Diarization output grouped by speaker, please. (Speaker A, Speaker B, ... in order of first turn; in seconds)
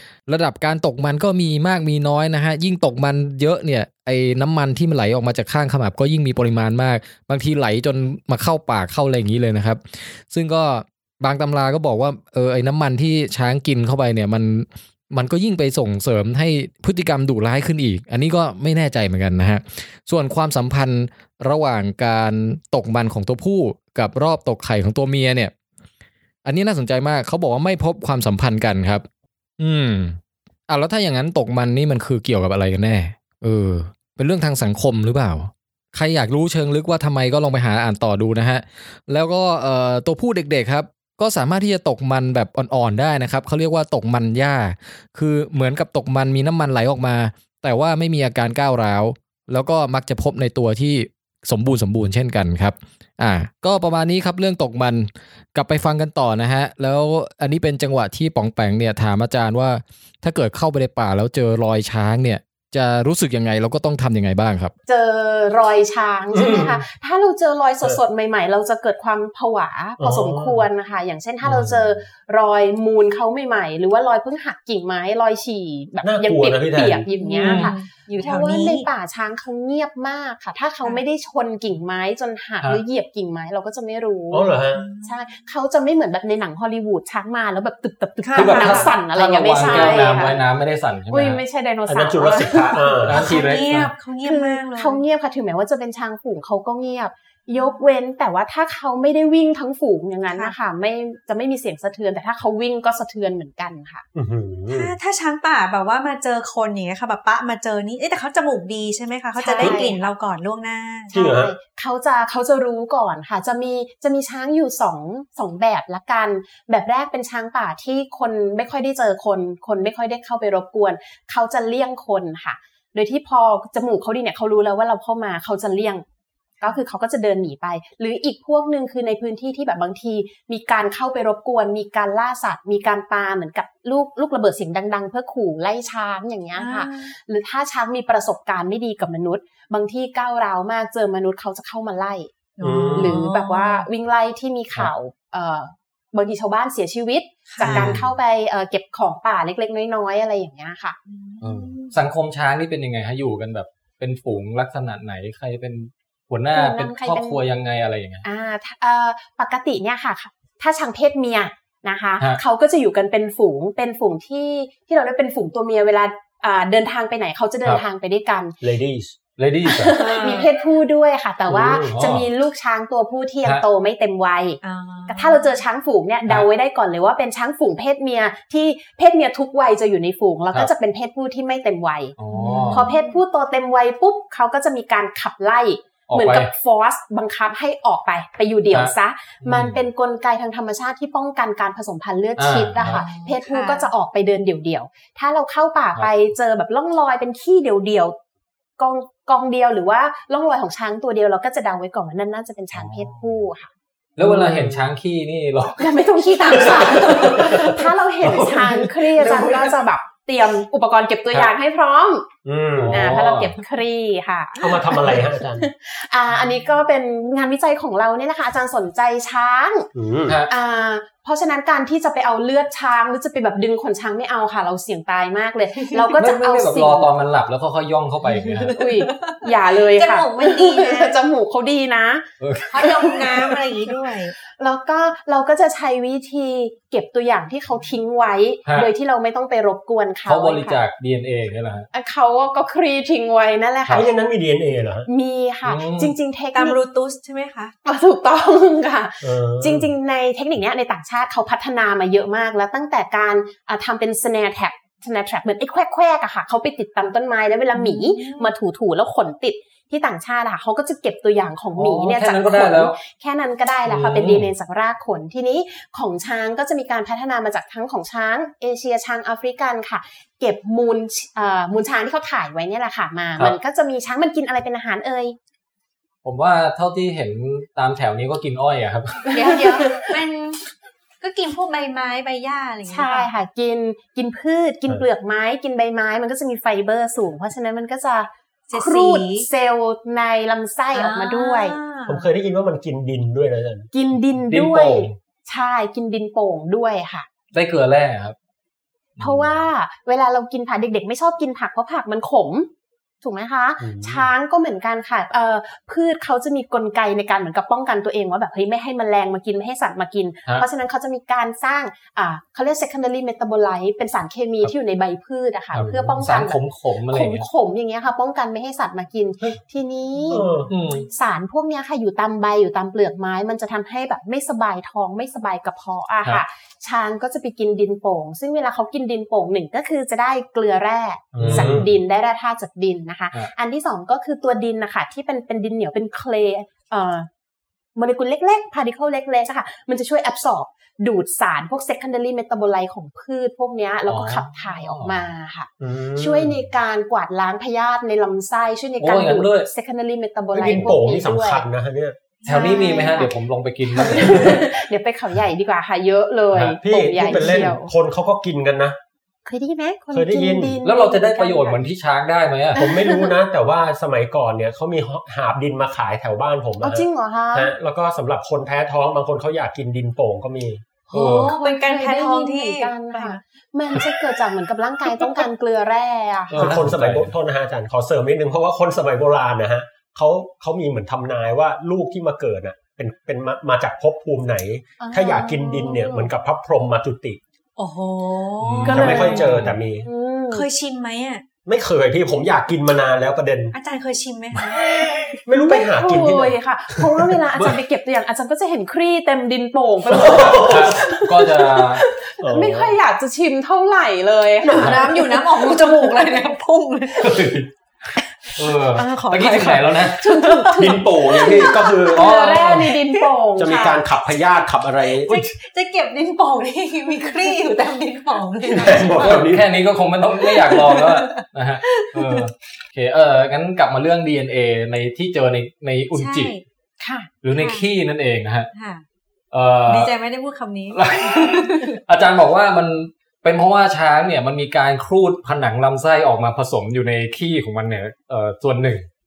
Speaker A: 0.3-25.5, 26.4-29.1, 29.6-64.7
Speaker B: 64.9-84.5, 85.0-90.4, 91.1-93.4, 94.2-104.0, 109.4-110.1, 111.1-126.0, 126.6-142.3, 142.9-151.0, 156.5-157.4, 158.2-168.6, 169.6-182.2, 182.7-198.2, 198.8-203.7, 205.8-212.3, 212.9-219.9, 220.5-227.1, 228.6-232.3, 232.8-233.6, 234.6-240.8, 241.9-244.1, 245.1-246.8, 247.8-275.4, 279.3-280.2, 282.9-291.8, 293.9-297.3, 299.2-302.7, 303.2-320.5, 321.1-337.3, 338.0-351.6, 352.4-353.3, 353.9-357.9, 359.4-361.8, 362.8-363.3, 366.8-367.7, 371.1-376.8, 385.0-386.3, 388.9-389.5, 390.1-390.7, 395.6-406.2, 409.0-413.9, 427.0-427.3
Speaker C: 66.3-66.8, 70.0-70.7, 71.5-71.8, 76.0-77.1, 84.3-84.8, 91.9-93.3, 104.1-104.9, 109.6-109.8, 111.1-111.5, 142.6-143.2, 168.6-169.2, 171.5-171.9, 204.2-204.7, 212.4-213.0, 214.6-215.7, 219.9-220.4, 243.9-245.1, 249.2-249.9, 292.1-293.9, 303.8-304.3, 315.8-316.2, 320.3-320.7, 331.4-331.9, 345.8-346.6, 350.5-352.2, 356.7-359.0, 360.1-360.8, 362.7-370.9, 376.6-387.4, 388.9-390.1, 391.7-393.8, 395.3-397.4, 400.1-401.0, 402.4-402.9, 404.6-405.0, 410.7-412.4, 413.6-415.4, 418.7-419.7
Speaker D: 77.2-78.9, 84.7-85.2, 88.2-89.0, 89.6-90.3, 93.0-95.0, 97.6-97.8, 104.7-111.1, 136.6-137.1, 142.6-143.9, 147.6-148.0, 151.1-151.9, 169.9-170.5, 174.6-175.5, 182.3-183.2, 192.8-193.9, 206.7-207.5, 209.2-209.7, 228.3-231.2, 232.7-234.3, 246.5-247.8, 257.7-258.5, 279.3-280.6, 281.2-283.3, 288.7-289.5, 290.9-292.3, 352.5-352.8, 371.1-373.4, 387.8-389.4, 390.5-391.4, 393.7-395.4, 404.6-407.4, 409.0-412.1, 412.8-414.0, 415.3-419.4, 420.3-422.5, 426.1-426.6, 427.5-427.9, 428.8-429.1, 429.9-432.0
Speaker E: 77.4-77.8, 88.3-91.4, 93.0-93.9, 147.6-148.1, 151.4-158.2, 169.4-170.0, 171.8-172.3, 182.2-182.9, 186.1-186.5, 188.7-189.8, 192.4-193.1, 202.7-203.3, 204.2-207.8, 208.3-208.8, 212.8-213.6, 226.1-228.8, 232.4-233.1, 238.7-238.9, 240.3-241.9, 245.7-246.1, 261.8-263.0, 263.9-264.5, 276.2-279.5, 294.5-295.1, 297.5-298.4, 315.7-317.5, 320.7-321.1, 331.4-331.9, 344.1-345.2, 349.0-349.7, 352.5-354.8, 360.8-362.8, 371.1-371.6, 376.5-377.3, 388.6-389.8, 400.5-402.0, 407.2-407.7, 408.6-410.2, 412.1-413.0, 419.2-426.5, 427.4-428.7, 429.5-430.1, 430.9-439.1